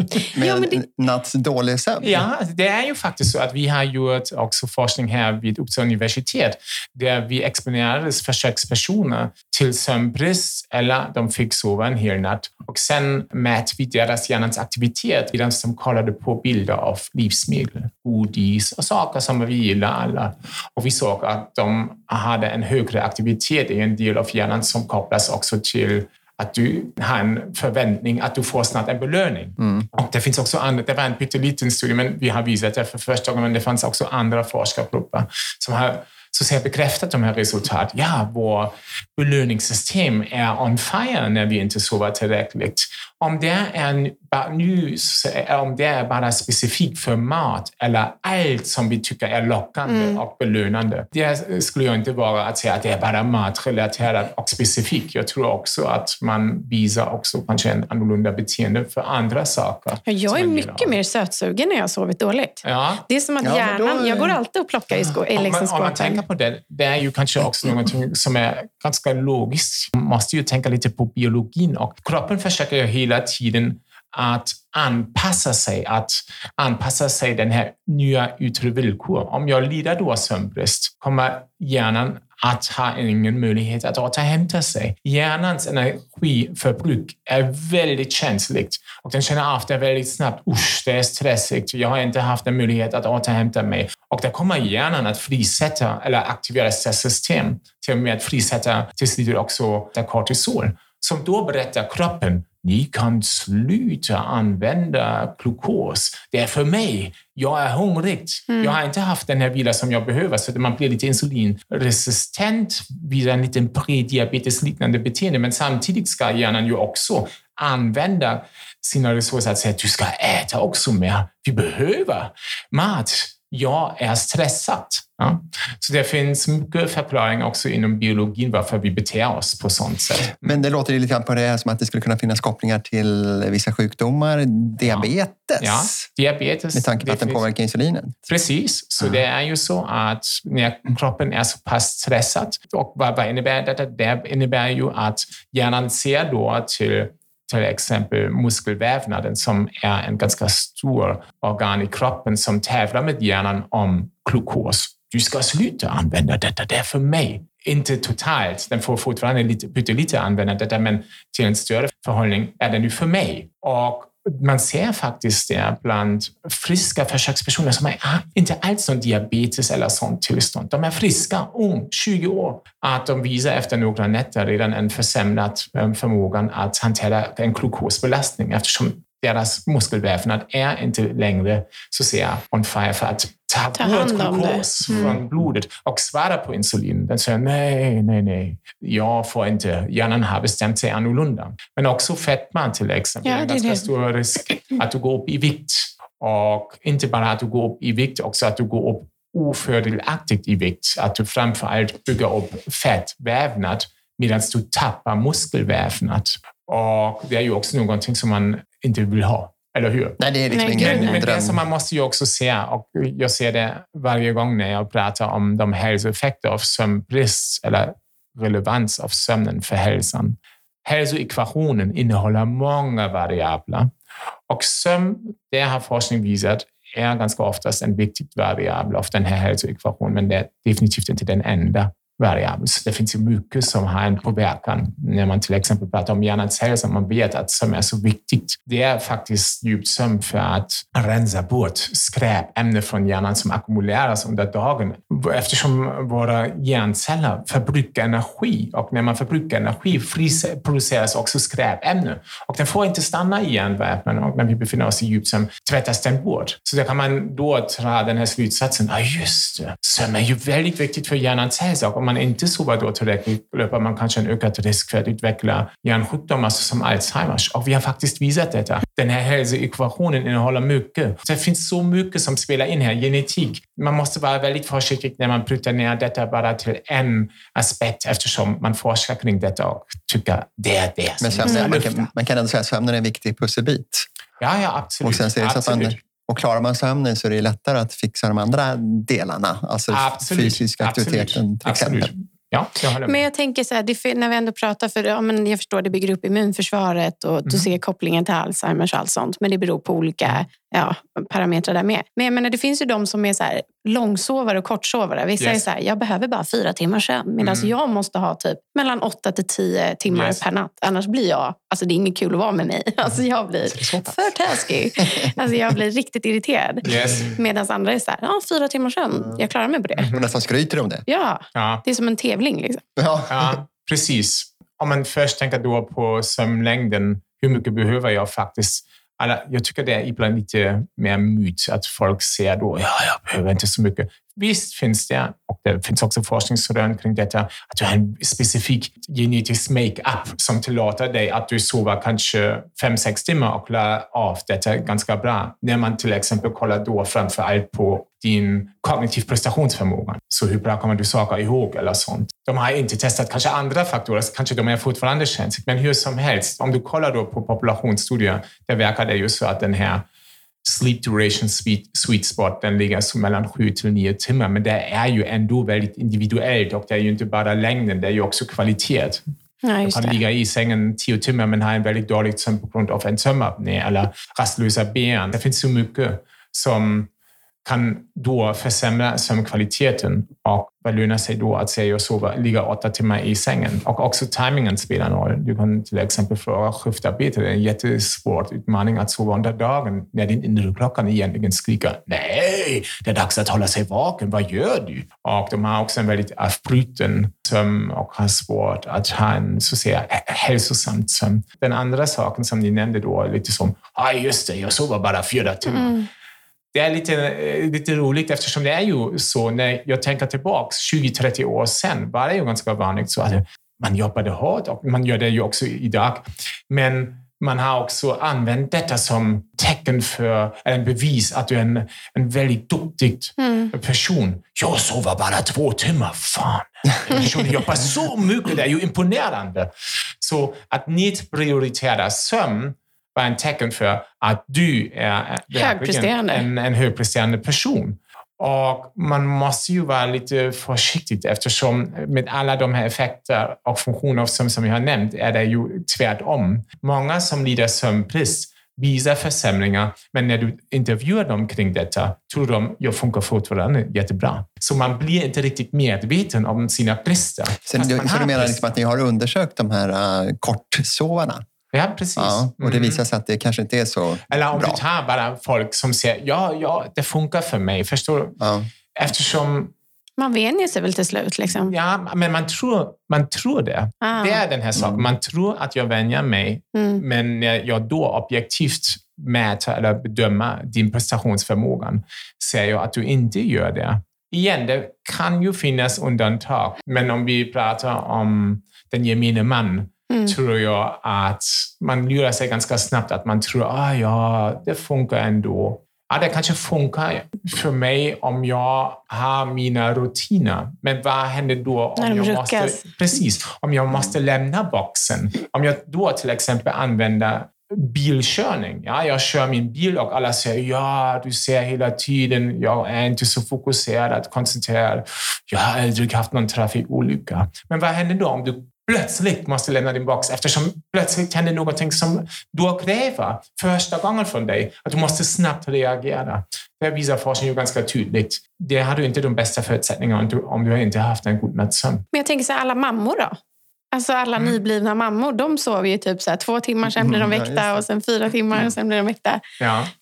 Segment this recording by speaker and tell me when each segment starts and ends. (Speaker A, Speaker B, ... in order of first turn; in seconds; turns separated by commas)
Speaker A: 0.3-2.2, Speaker B: 0.4-0.8, Speaker C: 2.0-61.0, Speaker B: 49.9-50.2, Speaker B: 60.1-66.2, Speaker C: 62.6-63.0, Speaker A: 63.4-64.4, Speaker C: 65.3-130.6, Speaker A: 130.4-136.1, Speaker C: 135.6-137.5, Speaker A: 136.7-138.1, Speaker C: 138.2-210.2, Speaker B: 183.8-185.1, Speaker B: 193.2-193.9, Speaker A: 210.2-211.6, Speaker B: 210.5-211.2, Speaker C: 210.7-223.9, Speaker C: 224.5-282.1, Speaker A: 281.2-284.1, Speaker B: 281.4-281.7, Speaker C: 284.4-286.0, Speaker A: 285.0-292.1, Speaker C: 289.9-293.2, Speaker B: 293.0-320.1, Speaker C: 305.4-305.6, Speaker C: 307.4-307.7, Speaker C: 310.1-310.4, Speaker C: 313.8-314.1, Speaker C: 316.8-317.3, Speaker C: 320.0-320.2, Speaker A: 320.1-321.0, Speaker B: 321.1-322.8, Speaker C: 321.5-321.8, Speaker A: 323.0-323.5, Speaker C: 323.3-360.0, Speaker C: 360.6-369.2, Speaker B: 369.6-370.2, Speaker C: 369.8-377.1, Speaker C: 377.6-406.0, Speaker B: 405.7-406.1, Speaker C: 406.7-458.8, Speaker B: 423.4-423.7, Speaker B: 435.5-436.4, Speaker A: 457.6-461.4, Speaker C: 461.7-463.0, Speaker A: 462.2-464.8, Speaker C: 464.3-468.4, Speaker A: 468.4-468.7, Speaker C: 468.9-469.7, Speaker B: 470.2-471.7, Speaker C: 471.6-532.0, Speaker B: 474.0-474.4, Speaker A: 474.8-475.1, Speaker B: 476.7-477.0, Speaker B: 502.0-502.8, Speaker B: 532.1-533.4, Speaker B: 533.9-539.4, Speaker A: 536.9-537.8, Speaker C: 539.6-539.9